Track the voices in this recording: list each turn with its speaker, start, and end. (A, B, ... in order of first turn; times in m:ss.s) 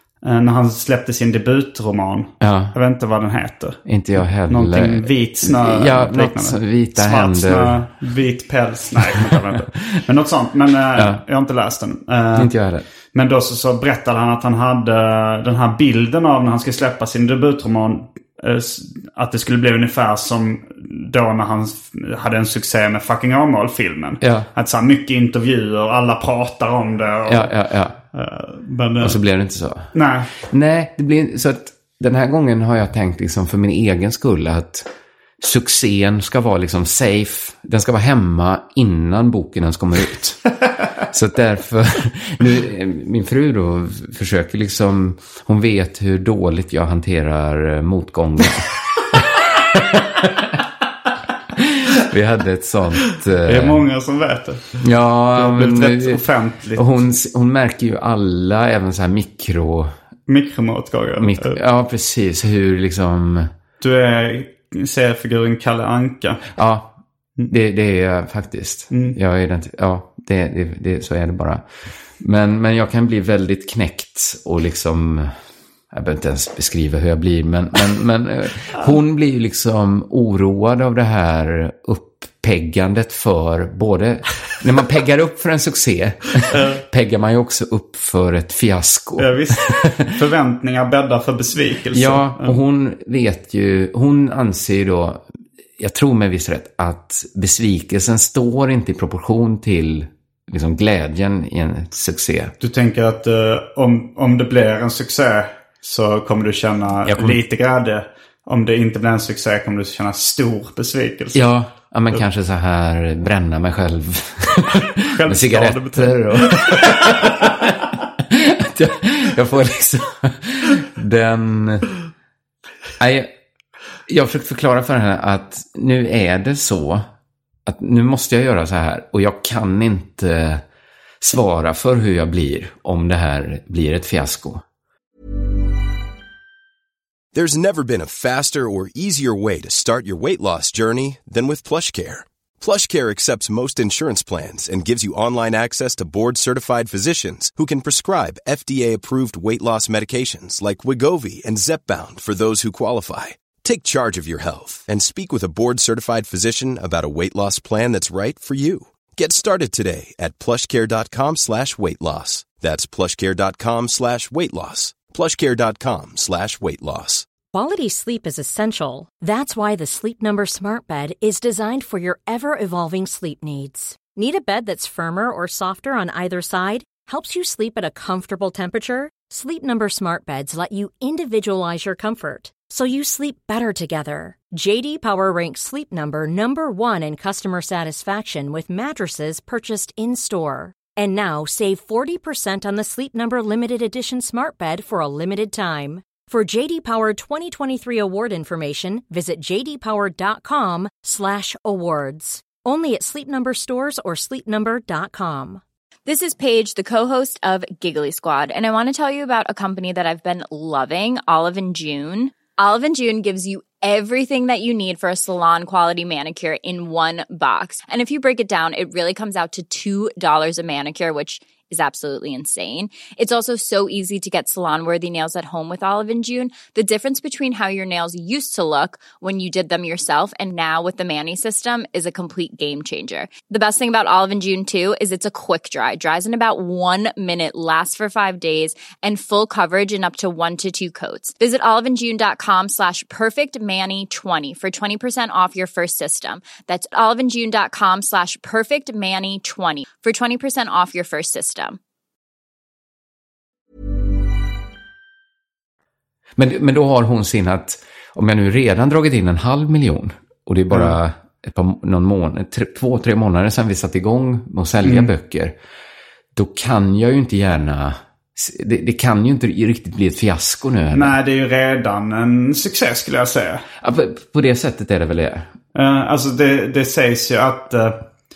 0:00.2-0:12.5 A
0:02.4-0:02.7 B
0:03.8-0:07.8 B
0:11.0-0:11.2 B
0:12.3-0:12.8 B
0:13.1-0:27.5 A
0:24.2-0:24.5 B
0:27.2-0:28.0 B
0:28.1-0:29.2 A
0:29.0-0:34.9 B
0:29.9-0:30.3 A
0:35.4-0:50.6 B
0:51.5-0:53.8 B
0:53.4-0:54.8 A
0:54.8-0:56.2 B
0:55.3-0:57.0 A
0:56.7-0:59.9 B
1:00.3-1:01.6 A
1:01.2-1:03.5 B
1:03.8-1:06.4 A
1:06.5-1:06.9 B
1:07.5-1:11.6 B
1:08.9-1:09.2 A
1:12.2-1:15.3 B
1:15.9-1:30.1 B
1:26.5-1:26.8 A
1:29.2-1:32.6 A
1:31.9-1:35.2 B
1:35.8-1:42.5 B
1:42.6-1:51.4 A
1:47.0-1:47.4 B
1:51.3-2:01.9 B
1:55.1-1:57.5 A
2:03.0-2:03.3 B
2:04.1-2:07.0 B
2:07.6-2:10.6 B
2:11.2-2:14.6 B
2:17.3-2:47.2 C
2:47.5-3:25.6 D
3:26.0-4:11.8 E
4:16.4-4:25.6 B
4:24.8-4:25.1 A
4:26.3-4:31.2 B
4:30.9-4:33.6 A
4:33.8-4:35.5 B
4:35.7-4:38.0 A